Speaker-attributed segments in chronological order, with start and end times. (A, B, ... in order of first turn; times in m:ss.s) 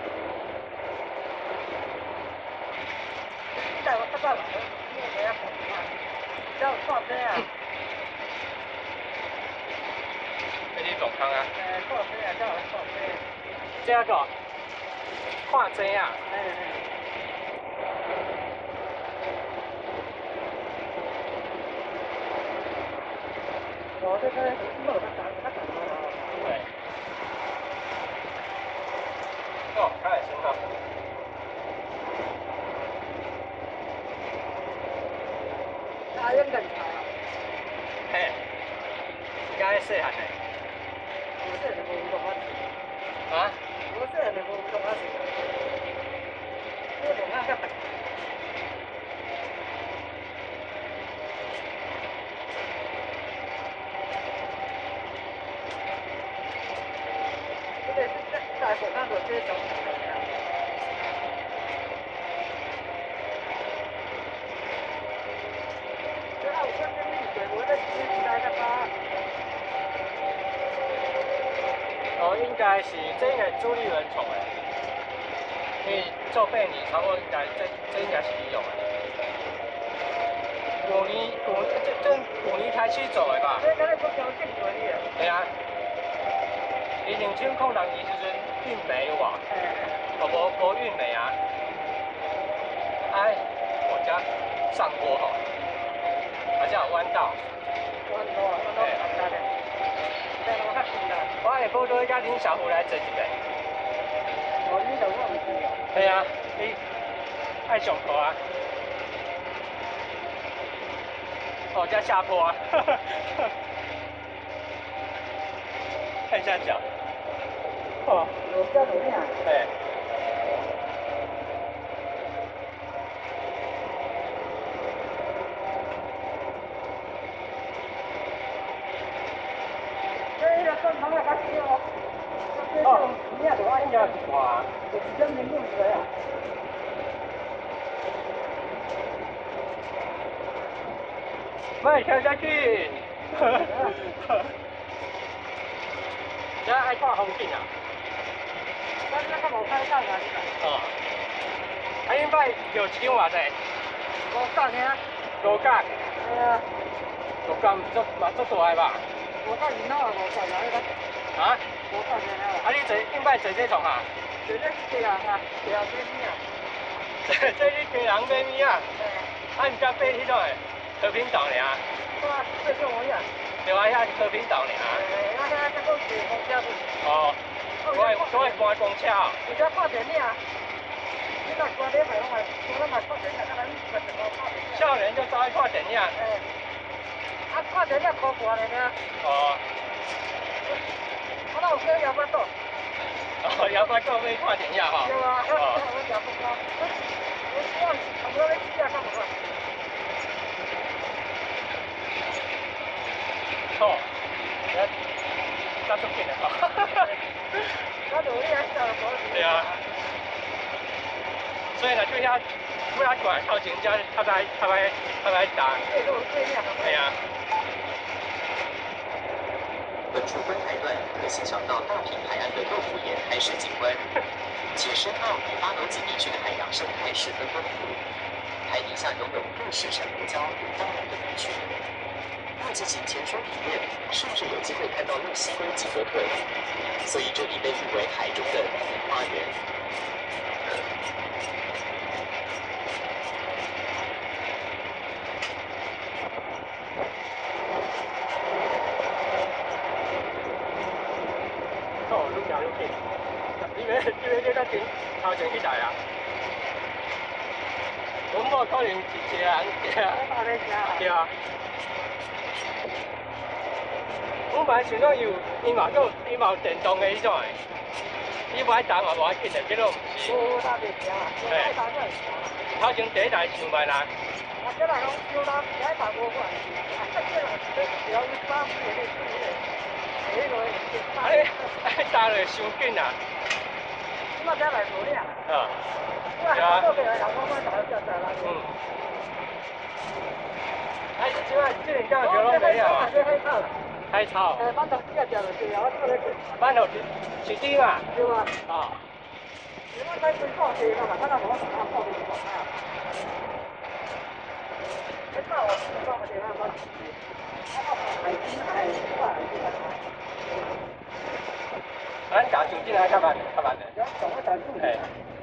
0:03.6-0:06.0 A
0:06.6-0:07.5 A
0:10.7-0:11.5 B
0:11.6-0:13.2 A
0:13.8-0:14.3 B
0:15.4-0:16.2 B
0:16.3-0:16.8 A
0:24.0-0:26.2 A
0:26.4-0:26.7 B
0:29.7-0:30.6 B
0:36.1-0:37.1 A
0:38.1-0:38.4 B
0:39.5-0:40.4 B
0:41.4-0:42.7 A
0:43.3-0:43.6 B
0:43.9-0:45.3 A
0:47.0-0:47.9 A
0:57.8-1:00.3 A
1:06.4-1:08.9 A
1:12.2-1:14.5 B
1:15.8-1:18.9 B
1:20.8-1:23.6 B
1:23.6-1:25.1 A
1:25.2-1:25.5 B
1:27.0-1:29.4 B
1:29.5-1:30.0 A
1:30.2-1:31.4 B
1:33.1-1:35.4 B
1:36.6-1:37.4 B
1:38.1-1:39.5 A
1:40.4-1:41.3 A
1:41.4-1:43.4 B
1:44.6-1:45.8 A
1:45.9-1:46.8 B
1:47.7-1:48.4 B
1:51.7-1:53.5 B
1:56.3-1:56.8 B
1:58.0-1:58.3 B
1:58.5-1:59.3 A
1:59.4-1:59.7 B
2:10.4-2:11.8 A
2:12.5-2:14.2 A
2:12.8-2:13.2 B
2:13.7-2:14.7 B
2:14.9-2:16.1 A
2:21.8-2:24.5 B
2:23.4-2:24.1 A
2:26.6-2:27.7 B
2:29.1-2:30.5 A
2:30.6-2:31.0 B
2:32.1-2:33.6 B
2:34.3-2:35.0 A
2:35.4-2:35.9 B
2:36.2-2:36.7 A
2:37.4-2:39.0 B
2:39.4-2:40.9 A
2:41.4-2:41.6 B
2:41.9-2:42.7 A
2:42.6-2:44.1 B
2:44.4-2:46.4 A
2:47.2-2:48.9 B
2:49.0-2:49.3 A
2:49.6-2:51.8 B
2:52.2-2:53.3 A
2:53.6-2:55.0 B
2:54.9-2:56.8 A
2:57.0-2:59.4 B
2:57.9-2:58.6 A
2:59.4-3:00.4 A
3:01.4-3:04.9 A
3:04.7-3:06.2 B
3:06.2-3:06.4 A
3:07.5-3:09.0 A
3:09.2-3:09.6 B
3:11.5-3:12.5 A
3:13.4-3:15.8 B
3:15.0-3:16.9 A
3:17.5-3:19.3 A
3:23.7-3:24.1 B
3:25.9-3:27.6 B
3:28.1-3:29.8 A
3:29.3-3:29.8 B
3:31.8-3:35.8 B
3:35.9-3:37.0 A
3:36.8-3:37.2 B
3:40.1-3:44.1 C
3:44.7-3:48.0 C
3:48.7-3:51.8 C
3:52.6-3:56.4 C
3:57.0-3:59.6 C
4:12.1-4:13.0 B
4:13.6-4:16.0 B
4:18.3-4:20.2 B
4:20.1-4:21.0 A
4:21.0-4:21.3 B
4:24.5-4:27.6 B
4:28.5-4:30.4 B
4:30.2-4:32.6 A
4:31.4-4:31.7 B
4:32.8-4:34.1 B
4:34.6-4:39.6 A
4:40.2-4:41.6 A
4:41.2-4:43.2 B
4:44.4-4:45.4 A
4:45.5-4:45.8 B
4:46.4-4:48.5 A
4:46.5-4:46.9 B
4:48.4-4:48.7 B
4:51.2-4:53.1 B
4:52.2-4:53.7 A
4:54.1-4:54.7 B
4:54.6-4:56.5 A
4:56.6-4:58.1 B
4:58.1-4:58.5 A
4:58.7-4:59.0 B
4:59.9-5:02.7 A
5:05.3-5:07.1 A
5:07.7-5:10.0 A
5:12.3-5:13.9 B
5:14.0-5:15.0 A
5:14.8-5:15.1 B